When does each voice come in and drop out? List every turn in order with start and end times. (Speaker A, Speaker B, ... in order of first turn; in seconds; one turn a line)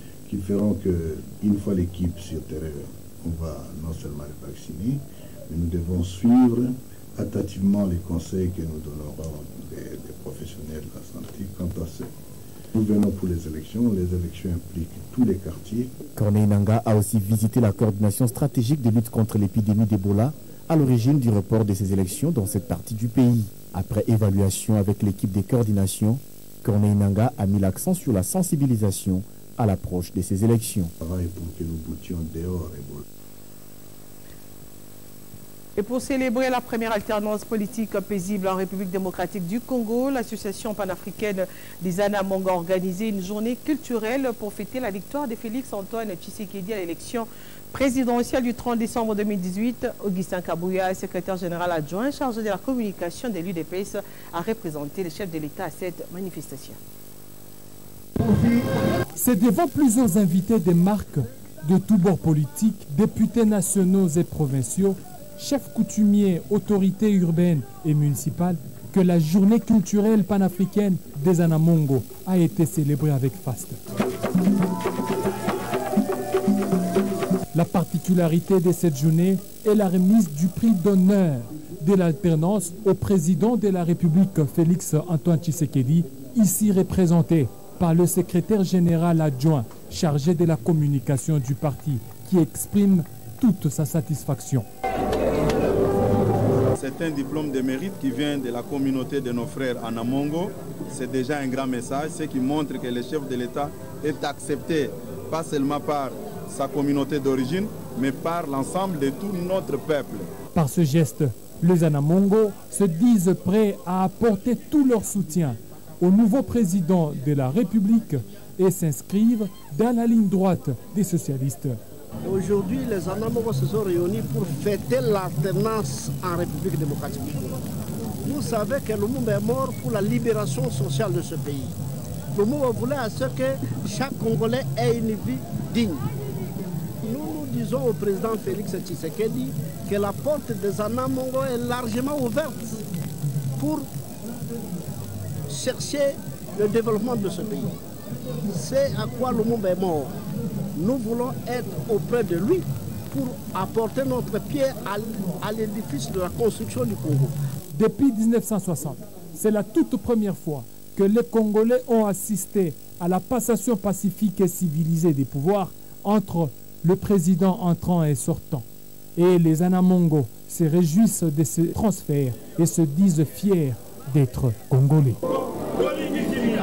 Speaker A: 0.3-12.1
Speaker A: 12.7-15.9
Speaker B: 16.1-30.9
Speaker A: 31.0-33.0
Speaker C: 35.8-56.8
Speaker D: 59.2-73.8
Speaker D: 77.5-94.7
Speaker E: 96.7-110.3
Speaker D: 110.5-121.8
Speaker F: 122.2-127.5
Speaker F: 128.2-131.7
Speaker F: 132.3-136.0
Speaker F: 137.0-142.7
Speaker F: 143.6-143.9
Speaker F: 145.5-147.7
Speaker F: 148.5-150.1
Speaker F: 150.8-157.3
Speaker D: 157.7-175.2